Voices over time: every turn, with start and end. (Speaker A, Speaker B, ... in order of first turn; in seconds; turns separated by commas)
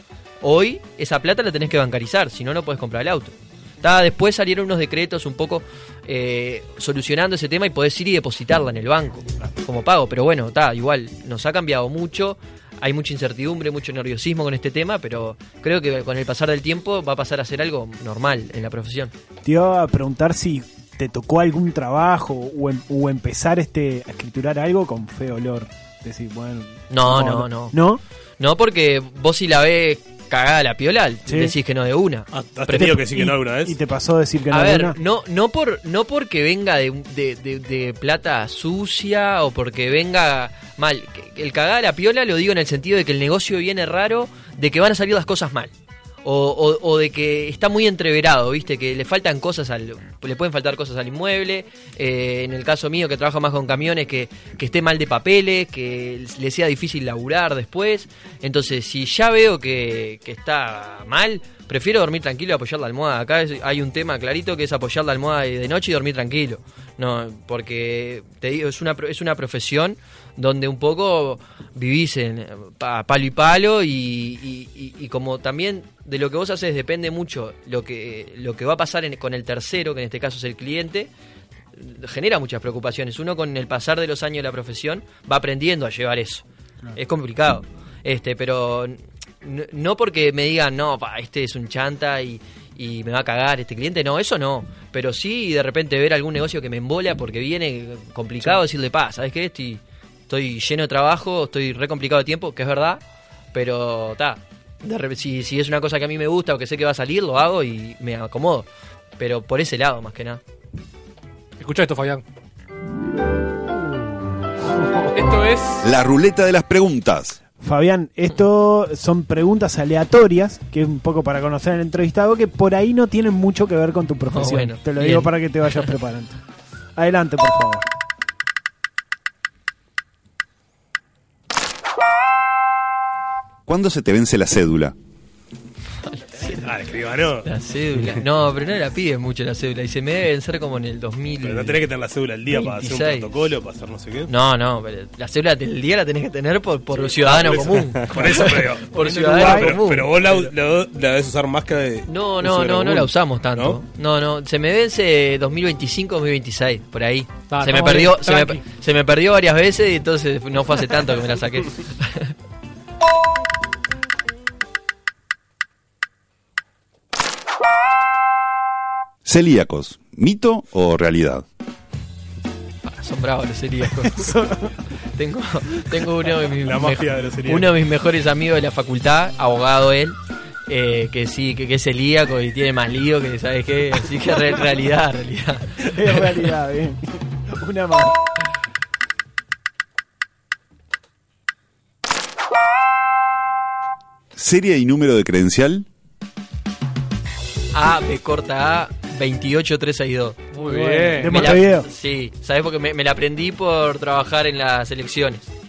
Speaker A: 0.4-19.1, Speaker B: 19.4-28.0, Speaker A: 26.9-27.8, Speaker A: 28.4-32.9, Speaker B: 31.3-31.5, Speaker C: 32.3-33.8, Speaker B: 32.7-35.0, Speaker A: 34.5-45.7, Speaker A: 46.2-81.1, Speaker A: 81.8-103.0, Speaker A: 103.5-110.4, Speaker D: 111.6-112.2, Speaker D: 115.1-115.8, Speaker E: 115.8-117.4, Speaker B: 117.6-126.4, Speaker A: 124.3-125.9, Speaker B: 127.0-127.9, Speaker E: 133.7-134.9, Speaker A: 136.1-136.7, Speaker C: 136.6-137.5, Speaker A: 137.4-141.8, Speaker C: 141.4-144.3, Speaker A: 142.5-143.4, Speaker A: 144.3-150.5, Speaker C: 146.9-153.8, Speaker B: 149.2-149.8, Speaker A: 152.1-162.3, Speaker D: 157.5-158.6, Speaker E: 169.2-171.4, Speaker A: 172.8-174.3, Speaker B: 174.0-174.7, Speaker A: 175.2-185.7, Speaker C: 176.6-177.7, Speaker B: 185.8-188.1, Speaker E: 194.3-195.8, Speaker A: 197.7-200.5, Speaker D: 200.5-201.6, Speaker B: 200.6-201.9, Speaker A: 201.2-205.5